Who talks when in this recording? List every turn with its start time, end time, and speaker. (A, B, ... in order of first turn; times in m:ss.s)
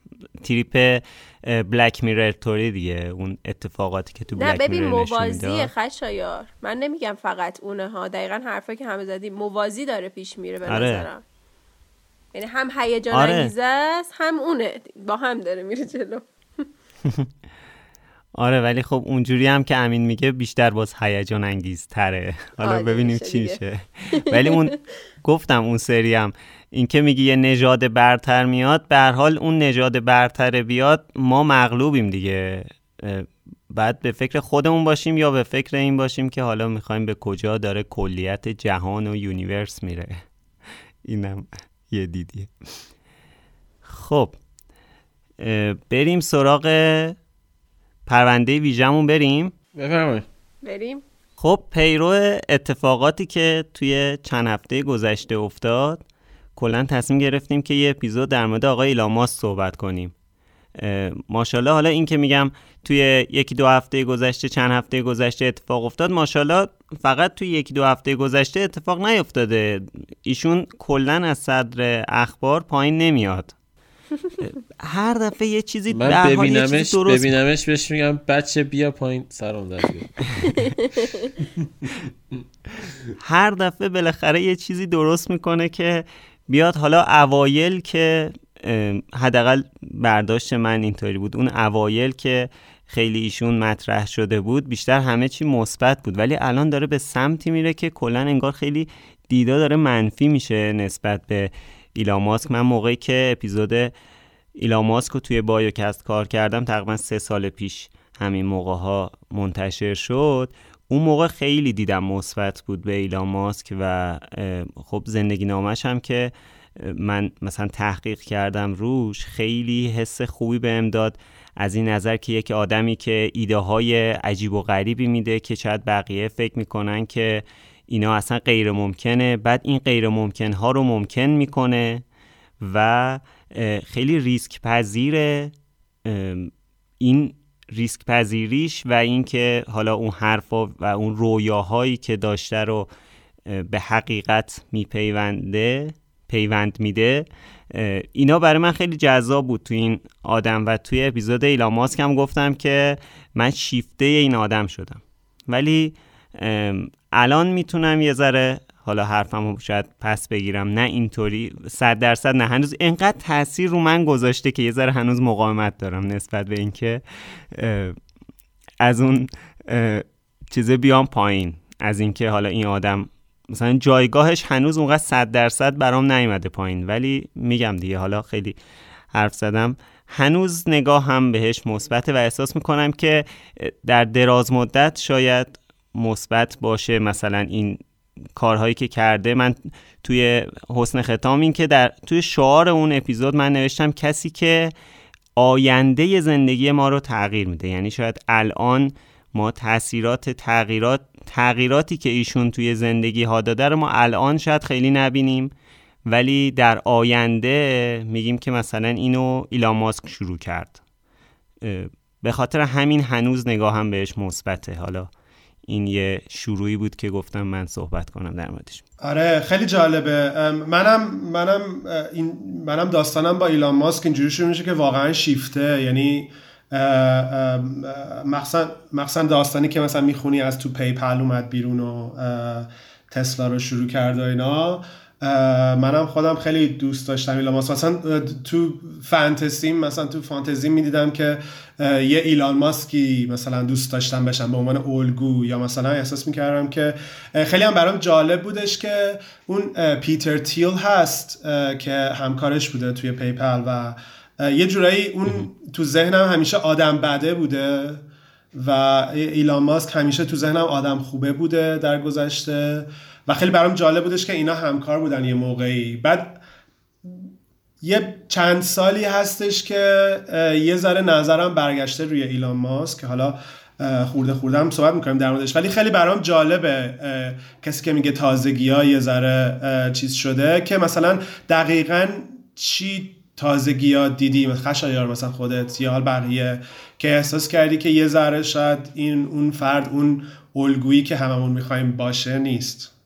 0:00.4-0:05.7 A
0:04.4-0:11.2 B
0:10.6-0:11.1 A
0:12.3-0:16.2 B
0:13.1-0:13.5 A
0:18.3-0:40.2 A
0:22.6-0:23.6 B
0:24.1-0:24.7 B
0:41.0-0:42.5 A
0:43.8-0:44.4 A
0:45.4-0:47.2 A
0:48.1-0:49.5 A
0:49.8-0:50.2 C
0:50.6-0:51.0 B
0:51.4-0:56.0 A
0:56.6-1:00.1 A
1:00.8-1:13.5 A
1:14.4-1:17.3 A
1:15.9-1:20.4 C
1:21.6-1:22.0 C
1:23.2-1:43.9 A
1:44.6-2:12.0 A
2:12.6-2:15.5 A
2:16.0-2:22.9 A
2:23.5-2:48.0 A
2:48.8-2:58.6 A
2:59.1-3:07.8 A
3:08.4-3:14.7 A
3:15.4-3:25.5 A
3:26.1-3:30.8 A
3:31.6-3:35.1 A
3:35.7-3:38.8 A
3:39.0-4:26.4 D
4:27.8-4:52.9 D